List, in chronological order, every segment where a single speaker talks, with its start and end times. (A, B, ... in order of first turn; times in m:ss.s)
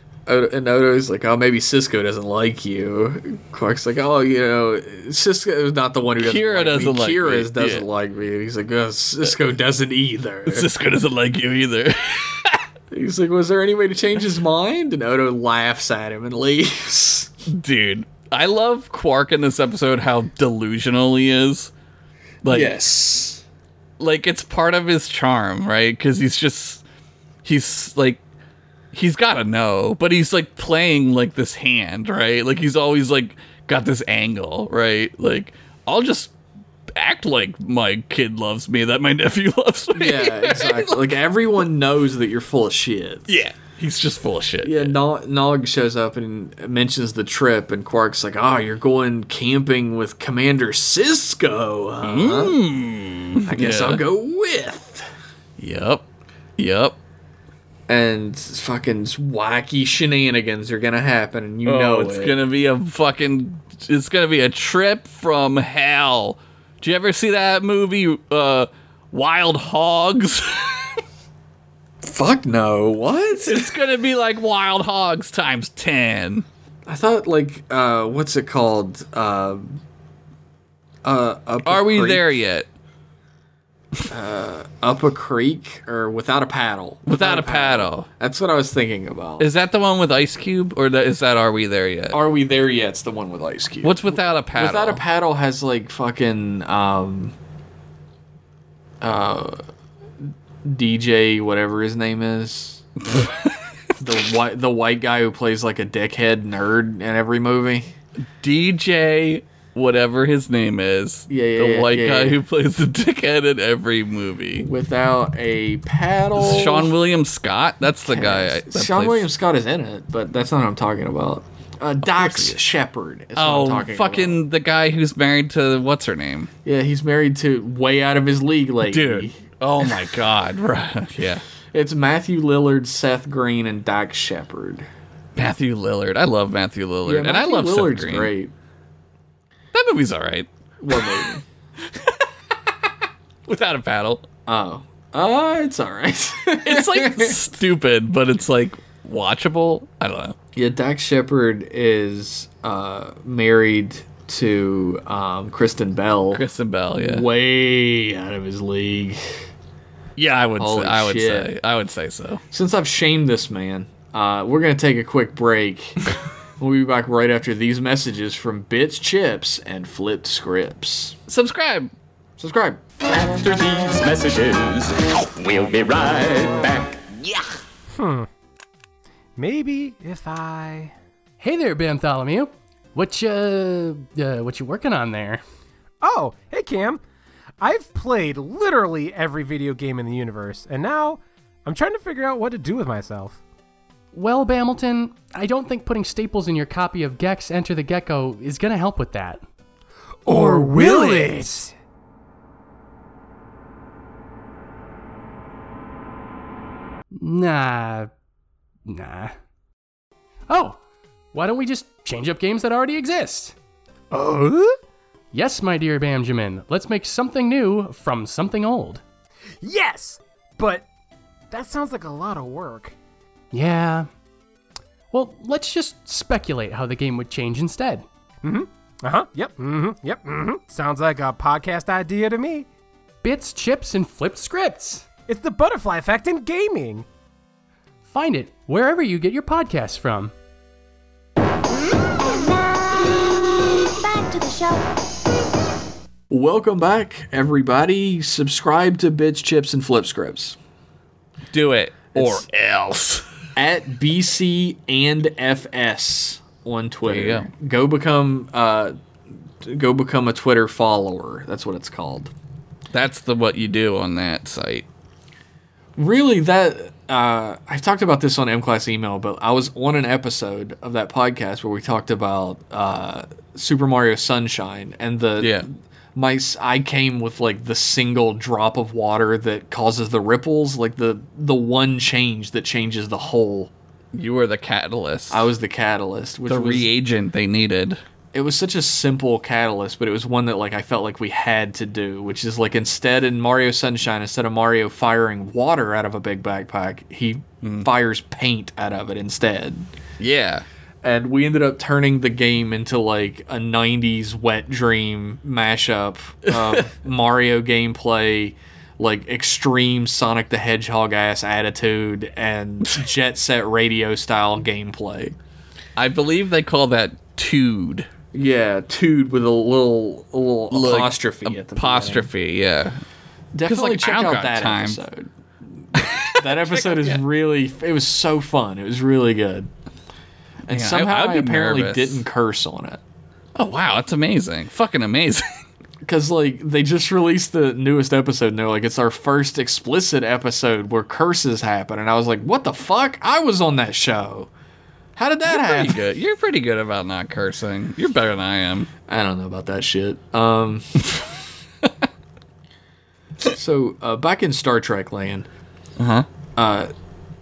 0:00.3-0:10.7 A
0:06.2-0:07.8 B
0:10.5-0:12.6 B
0:12.9-0:17.3 A
0:17.5-0:21.7 B
0:22.4-0:22.7 B
0:22.4-0:23.4 A
0:24.0-0:26.8 B
0:27.4-0:28.2 B
0:28.9-0:36.3 B
0:36.9-0:41.0 B
0:39.9-0:43.3 A
0:43.3-0:44.9 B
0:44.6-0:52.6 A
0:52.0-0:54.0 B
0:53.4-0:55.1 A
0:55.6-0:56.0 B
0:56.6-0:57.0 B
0:57.9-1:02.4 A
1:01.6-1:11.0 B
1:12.0-1:13.7 A
1:13.4-1:16.4 B
1:16.8-1:19.8 A
1:21.0-1:22.3 A
1:21.6-1:22.7 B
1:24.1-1:29.5 A
1:27.0-1:28.1 B
1:29.4-1:32.2 B
1:32.1-1:37.3 A
1:33.8-1:35.0 B
1:39.0-1:39.6 A
1:40.6-1:42.8 A
1:44.0-1:47.9 A
1:48.4-1:54.6 B
1:51.3-1:52.4 A
1:54.6-1:56.9 A
1:56.4-1:59.3 B
1:58.0-2:04.4 A
2:02.0-2:02.6 B
2:03.4-2:06.5 B
2:06.6-2:09.4 A
2:08.8-2:11.4 B
2:11.7-2:14.9 A
2:15.4-2:18.3 B
2:17.0-2:18.5 A
2:19.7-2:21.3 B
2:20.8-2:21.4 A
2:21.8-2:22.2 B
2:23.4-2:24.2 B
2:24.5-2:27.4 A
2:26.6-2:30.4 B
2:30.5-2:36.4 A
2:36.3-2:37.2 B
2:37.0-2:39.4 A
2:40.2-2:42.4 B
2:40.6-2:41.5 A
2:42.5-2:46.0 A
2:46.6-2:51.2 A
2:51.3-2:51.9 B
2:52.4-2:52.8 A
2:53.0-2:57.4 C
2:57.9-2:58.3 D
2:59.4-3:00.9 D
3:01.4-3:05.4 E
3:06.0-3:07.0 D
3:07.6-3:13.4 D
3:14.1-3:19.4 E
3:20.3-3:21.7 D
3:20.3-3:21.5 E
3:27.1-3:28.1 E
3:28.8-3:29.3 E
3:30.5-3:30.8 E
3:31.3-3:33.5 E
3:34.1-3:34.8 D
3:35.3-3:39.0 E
3:39.6-3:40.8 D
3:41.5-3:42.9 D
3:43.5-3:44.1 E
3:45.1-3:48.0 E
3:48.4-3:52.7 D
3:53.2-3:55.1 E
3:55.3-3:57.0 D
3:58.1-4:00.3 E
4:02.0-4:04.9 F
4:06.3-4:10.6 A
4:11.5-4:13.2 B
4:12.1-4:12.4 A
4:13.6-4:18.9 A
4:17.0-4:17.5 B
4:19.6-4:22.3 A
4:22.9-4:24.8 B
4:26.0-4:43.7 A
4:35.4-4:35.6 B
4:44.1-4:45.5 B
4:45.3-4:46.9 A
4:46.5-4:48.0 B
4:48.3-4:59.9 A
4:57.6-4:57.9 B
5:00.2-5:00.6 B
5:01.0-5:15.3 A
5:06.5-5:06.8 B
5:16.0-5:18.1 B
5:18.3-5:22.3 A
5:20.7-5:23.0 B
5:23.5-5:29.7 A
5:23.6-5:25.0 B
5:26.0-5:27.2 B
5:30.7-5:33.0 A
5:30.7-5:32.2 B
5:33.6-5:35.4 B
5:36.0-5:44.5 A
5:45.2-5:46.0 A
5:45.4-5:48.9 B
5:49.1-5:51.0 A
5:53.4-5:55.5 A
5:56.0-5:56.3 B
5:56.6-5:56.9 A